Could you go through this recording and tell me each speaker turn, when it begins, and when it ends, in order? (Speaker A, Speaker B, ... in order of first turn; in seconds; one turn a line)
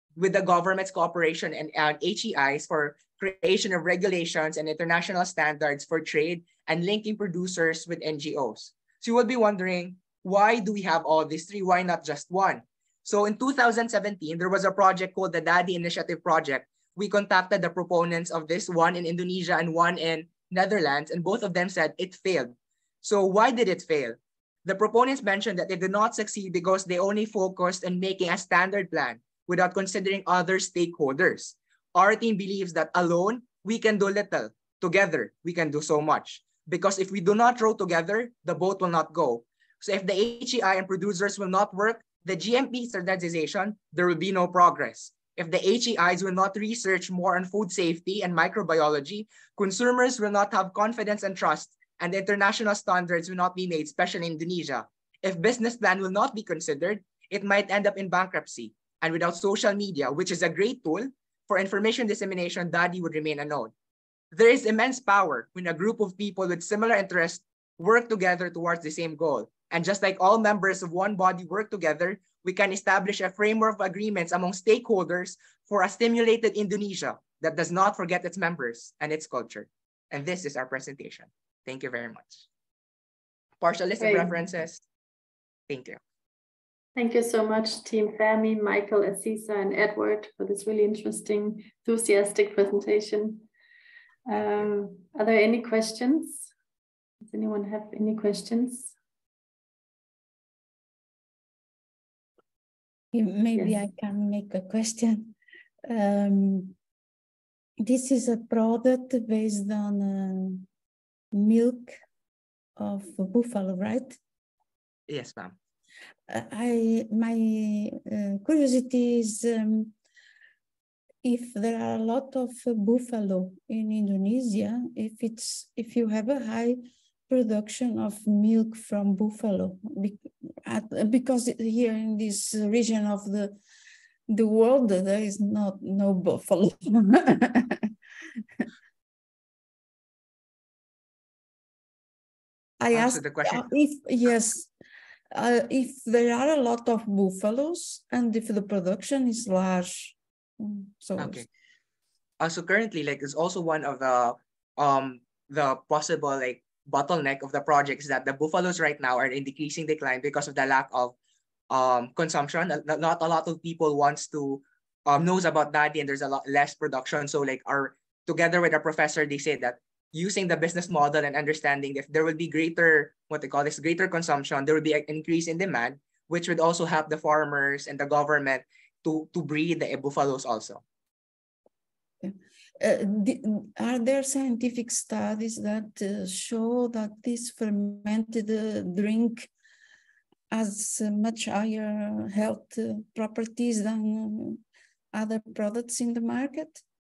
Speaker A: 0.2-63.7
Speaker A: 64.3-82.4
Speaker A: 83.6-84.8
Speaker B: 84.0-84.3
Speaker A: 85.7-86.0
Speaker B: 87.0-93.5
Speaker B: 94.3-96.5
Speaker B: 97.2-98.9
Speaker C: 103.1-105.3
Speaker C: 105.9-106.7
Speaker C: 107.8-110.6
Speaker C: 111.3-112.0
Speaker C: 112.8-114.2
Speaker A: 115.1-115.5
Speaker C: 116.3-119.9
Speaker C: 121.2-133.6
Speaker C: 134.3-137.7
Speaker C: 142.8-144.7
Speaker A: 142.9-143.7
Speaker C: 145.3-151.4
Speaker A: 151.2-151.4
Speaker A: 152.4-161.1
Speaker A: 161.7-180.8
Speaker C: 182.2-189.5
Speaker C: 190.5-194.6
Speaker C: 195.1-196.8